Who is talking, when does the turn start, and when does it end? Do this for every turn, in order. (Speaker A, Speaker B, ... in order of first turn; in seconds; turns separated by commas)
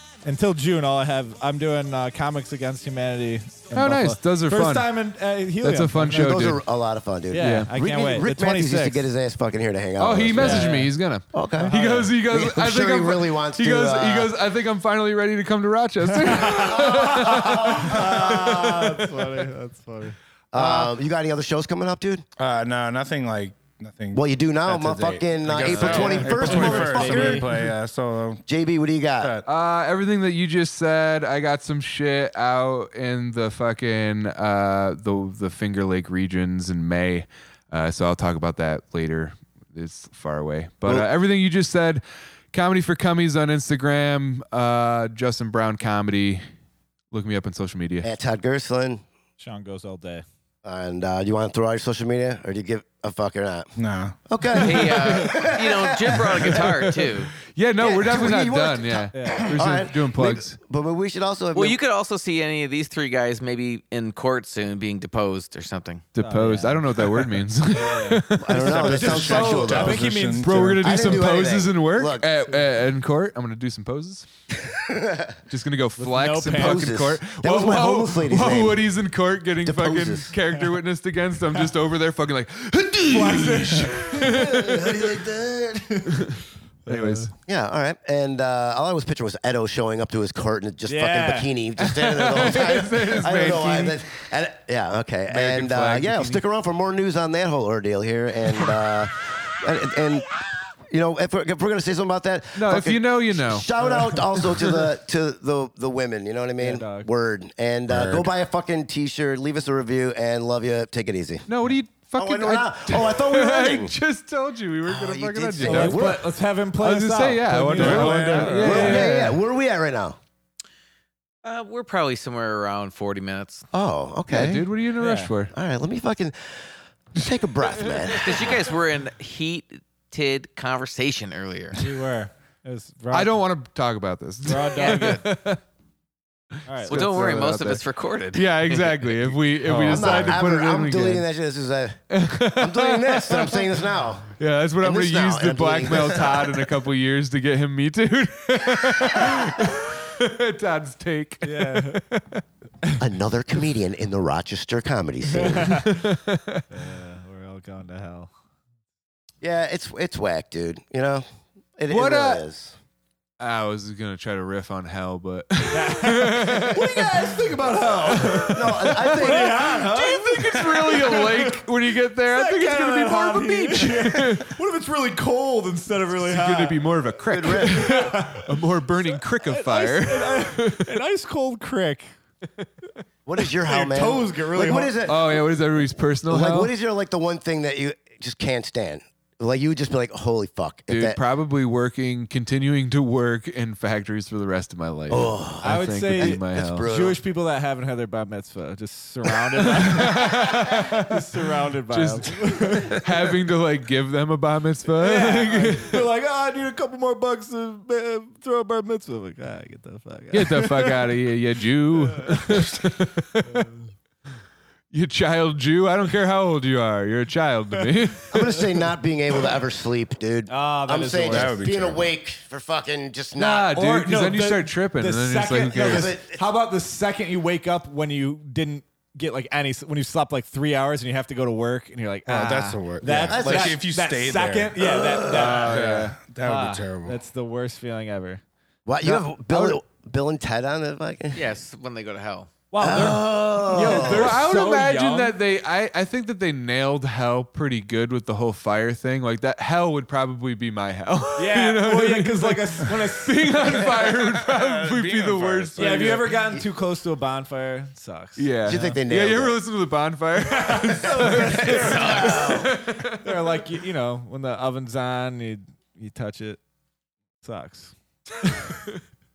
Speaker A: 0.2-6.4, Speaker B: 3.7-5.0, Speaker B: 5.6-6.6, Speaker C: 6.1-10.7, Speaker A: 7.3-9.1, Speaker B: 7.4-7.8, Speaker B: 10.0-19.3, Speaker A: 10.3-10.9, Speaker C: 11.3-14.3, Speaker A: 11.5-12.2, Speaker A: 16.1-20.2, Speaker C: 16.5-17.9, Speaker C: 20.5-22.3, Speaker D: 22.4-28.4, Speaker C: 24.1-27.5, Speaker B: 25.6-26.2, Speaker A: 25.9-27.7, Speaker C: 28.5-29.4, Speaker D: 29.2-29.5, Speaker B: 29.5-42.0, Speaker B: 42.5-46.4, Speaker B: 47.1-48.1, Speaker C: 48.0-49.0, Speaker A: 49.4-50.2, Speaker C: 50.6-53.7, Speaker D: 53.8-54.2, Speaker C: 54.3-56.7, Speaker E: 54.6-57.3, Speaker B: 54.7-55.3, Speaker B: 56.3-60.5, Speaker C: 57.8-61.8, Speaker A: 59.1-59.5, Speaker E: 61.5-66.1, Speaker B: 66.2-69.2, Speaker A: 66.2-70.7, Speaker C: 68.4-70.1, Speaker D: 68.6-71.0, Speaker B: 70.4-74.3, Speaker C: 70.8-72.3, Speaker C: 74.9-75.3, Speaker B: 75.5-85.2, Speaker A: 76.0-76.9, Speaker C: 76.5-78.8, Speaker C: 79.6-80.3, Speaker A: 83.1-84.5, Speaker C: 84.2-86.1, Speaker A: 86.9-87.3, Speaker B: 86.9-87.3, Speaker C: 87.5-100.3, Speaker A: 90.9-91.5, Speaker B: 91.8-94.0, Speaker B: 95.3-96.4, Speaker C: 100.9-111.5, Speaker B: 102.5-103.7, Speaker A: 103.8-104.1, Speaker A: 106.6-107.1, Speaker D: 107.9-108.3, Speaker B: 111.5-119.4, Speaker C: 112.2-113.9, Speaker C: 114.8-116.3, Speaker A: 115.6-119.2, Speaker D: 117.8-118.9, Speaker C: 118.6-120.2, Speaker E: 121.4-123.7, Speaker C: 123.7-124.7, Speaker B: 124.3-125.5, Speaker A: 125.0-125.3, Speaker C: 125.5-128.6, Speaker E: 128.2-132.0, Speaker A: 131.8-133.4, Speaker B: 133.1-135.6, Speaker A: 134.5-135.2, Speaker E: 134.8-135.2, Speaker A: 136.7-137.4, Speaker E: 136.8-139.4, Speaker B: 136.9-141.3, Speaker A: 139.7-140.2, Speaker C: 139.9-144.3, Speaker B: 142.1-143.8, Speaker B: 144.4-152.4, Speaker C: 144.8-146.7, Speaker A: 151.4-152.0, Speaker C: 153.0-155.8, Speaker A: 155.3-155.9, Speaker B: 155.7-156.6, Speaker A: 156.7-158.3, Speaker C: 159.4-161.2, Speaker C: 161.8-162.8, Speaker B: 161.9-162.4, Speaker B: 163.4-167.3, Speaker A: 165.7-176.9, Speaker B: 168.0-174.6, Speaker C: 168.5-169.8, Speaker B: 176.1-181.0, Speaker C: 177.3-178.1, Speaker A: 177.4-182.1, Speaker C: 183.3-185.4, Speaker A: 183.4-185.1, Speaker B: 185.1-186.7, Speaker C: 186.3-191.2, Speaker B: 190.9-196.8, Speaker C: 195.1-197.2, Speaker A: 195.6-203.3, Speaker B: 199.6-206.1, Speaker A: 204.9-211.2, Speaker B: 210.3-213.7, Speaker A: 211.9-212.8, Speaker A: 213.5-213.9, Speaker B: 214.9-218.4, Speaker C: 218.3-223.7, Speaker A: 220.5-221.6, Speaker D: 221.3-222.1, Speaker B: 223.4-226.2, Speaker A: 223.7-238.4, Speaker C: 225.7-226.4, Speaker D: 232.3-237.2, Speaker C: 233.3-233.8, Speaker C: 234.8-235.4, Speaker B: 235.3-236.1, Speaker C: 238.9-241.5, Speaker B: 239.0-239.8, Speaker E: 241.3-242.6, Speaker A: 242.7-245.4, Speaker C: 242.8-244.4, Speaker B: 243.7-256.4, Speaker A: 251.4-254.0, Speaker D: 254.2-256.3, Speaker A: 255.8-258.8, Speaker B: 258.4-263.6, Speaker C: 258.6-259.6, Speaker A: 260.4-266.6, Speaker C: 261.4-262.7, Speaker A: 267.4-268.9